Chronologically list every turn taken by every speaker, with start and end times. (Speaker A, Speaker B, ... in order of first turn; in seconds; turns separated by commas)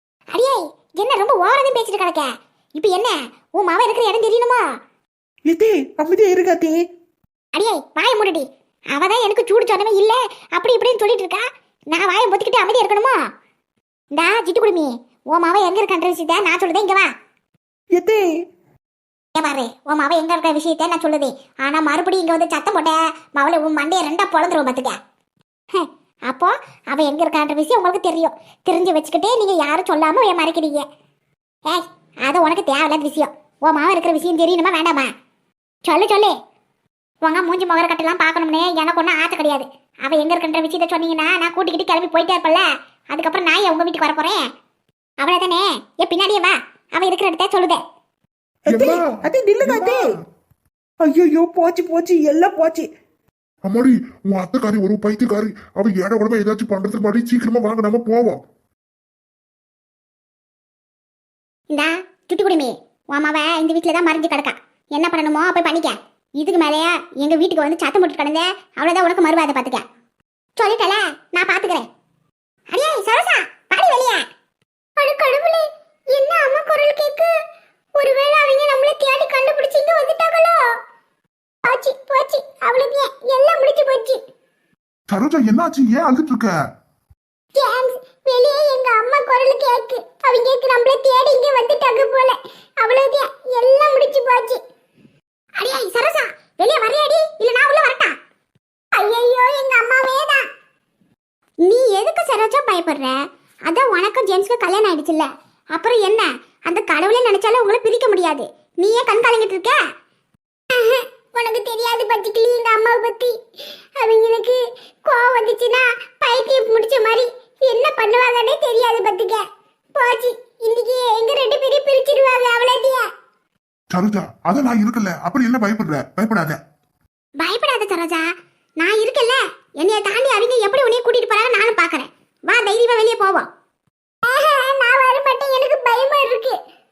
Speaker A: 0.3-4.6, Speaker B: 5.5-6.8, Speaker A: 7.5-13.2, Speaker A: 14.1-17.1, Speaker B: 17.9-18.2, Speaker A: 19.4-24.9, Speaker A: 25.7-30.8, Speaker A: 31.7-35.1, Speaker A: 35.8-36.3, Speaker A: 37.2-44.4, Speaker A: 45.2-47.8, Speaker B: 48.7-50.0, Speaker C: 48.7-49.0, Speaker C: 49.6-50.2, Speaker B: 51.0-52.9, Speaker C: 53.6-58.4, Speaker A: 61.7-69.8, Speaker A: 70.6-71.8, Speaker A: 72.7-74.2, Speaker A: 75.0-77.3, Speaker A: 78.0-80.7, Speaker A: 81.6-84.2, Speaker C: 85.1-86.5, Speaker A: 87.5-94.6, Speaker A: 95.6-98.1, Speaker A: 98.9-100.4, Speaker A: 101.6-109.8, Speaker A: 110.7-113.3, Speaker A: 114.0-119.4, Speaker A: 119.9-123.0, Speaker C: 123.9-126.6, Speaker A: 127.4-128.2, Speaker A: 128.8-133.5, Speaker A: 134.2-136.6